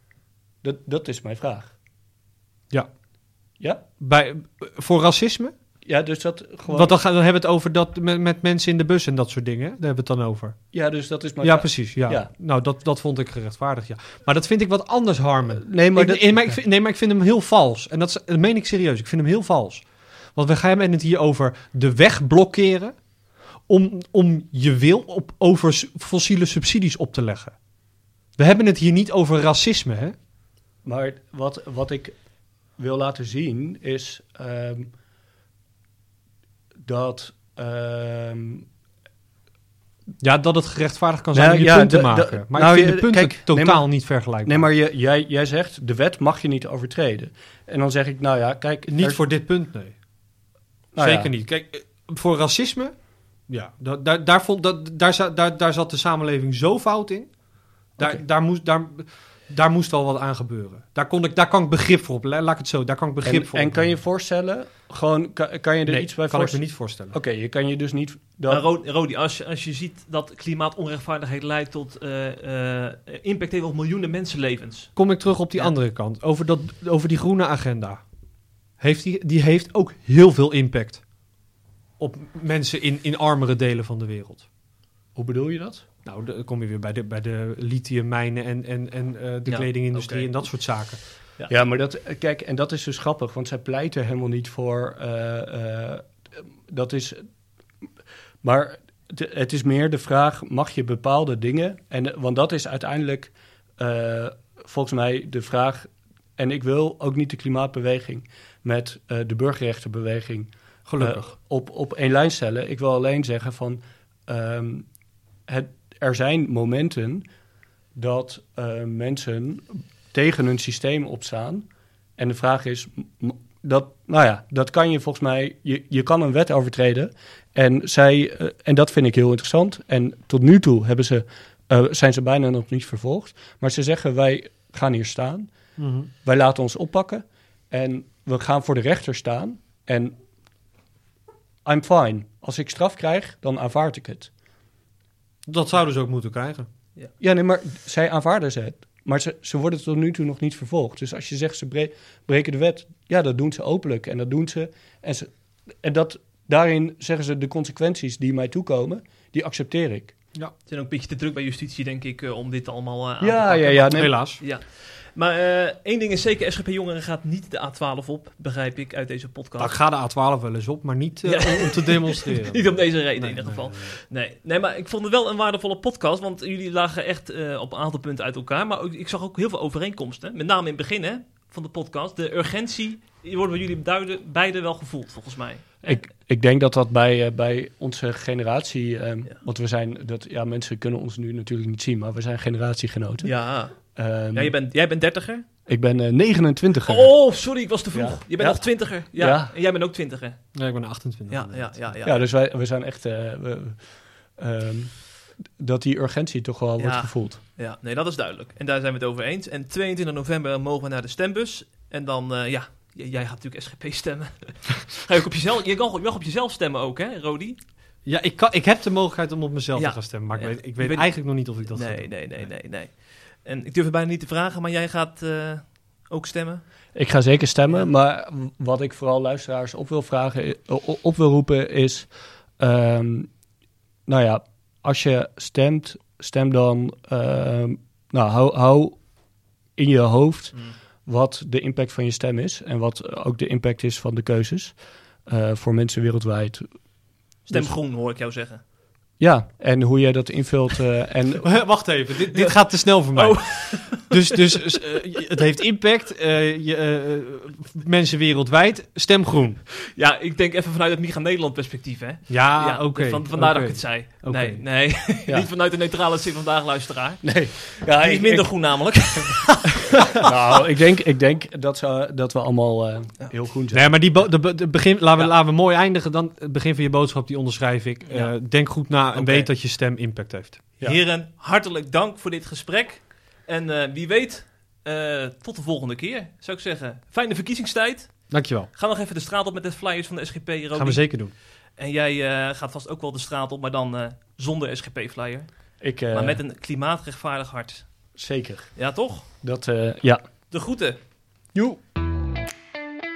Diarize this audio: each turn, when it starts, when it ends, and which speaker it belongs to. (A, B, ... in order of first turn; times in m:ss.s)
0:00.6-0:01.8 A
0:03.6-0:03.8 A
0:04.0-0:05.5 B
0:05.8-0:06.9 A
0:06.7-0:10.6 B
0:10.7-0:12.3 A
0:11.4-0:23.0 B
0:15.6-0:16.6 A
0:23.6-0:27.6 B
0:28.4-0:30.2 B
0:30.8-0:32.2 A
0:32.8-0:34.9 A
0:36.8-0:38.7 A
0:40.2-0:44.7 B
0:41.3-0:49.2 A
0:48.9-0:50.0 B
0:51.0-0:51.3 A
0:51.0-0:57.4 B
0:57.9-1:03.9 B
0:58.0-0:58.2 A
1:03.2-1:08.6 A
1:05.9-1:07.2 B
1:08.5-1:14.9 C
1:15.0-1:18.0 B
1:18.8-1:21.0 B
1:22.0-1:24.5 B
1:25.2-1:25.8 A
1:26.0-1:31.0 B
1:29.5-1:30.4 C
1:31.5-1:37.3 A
1:38.4-1:54.9 A
1:50.9-1:51.3 B
1:55.5-1:57.2 A
1:58.0-2:01.7 A
2:02.2-2:15.5 A
2:15.8-2:16.1 B
2:16.2-2:20.2 A
2:21.6-2:24.3 A
2:25.5-2:26.7 B
2:27.2-2:40.2 A
2:40.7-2:49.8 C
2:43.2-2:44.1 A
2:43.9-2:44.4 B
2:49.6-2:54.0 B
2:51.2-3:06.0 C
3:05.8-3:14.5 A
3:13.2-3:13.8 C
3:14.3-3:15.5 C
3:15.7-3:17.1 A
3:16.9-3:20.6 C
3:17.9-3:19.5 A
3:20.6-3:21.8 B
3:21.3-3:22.2 C
3:22.0-3:23.8 A
3:24.4-3:27.4 A
3:26.8-3:37.6 C
3:38.0-3:42.5 B
3:39.8-3:46.6 C
3:47.0-3:53.3 A
3:54.1-3:59.0 A
3:59.8-4:06.7 A
4:07.5-4:08.6 C
4:09.2-4:11.5 A
4:11.4-4:19.6 B
4:12.3-4:14.4 C
4:20.0-4:30.4 C
4:22.3-4:24.6 B
4:27.2-4:29.4 A
4:30.1-4:34.0 A
4:33.7-4:40.6 B
4:38.1-4:39.5 C
4:40.8-4:58.2 C
4:48.3-4:48.7 B
4:50.8-4:51.3 B
4:55.8-4:56.4 A
4:58.2-5:00.2 A
4:58.8-4:59.3 C
5:00.5-5:01.0 C
5:01.5-5:01.8 A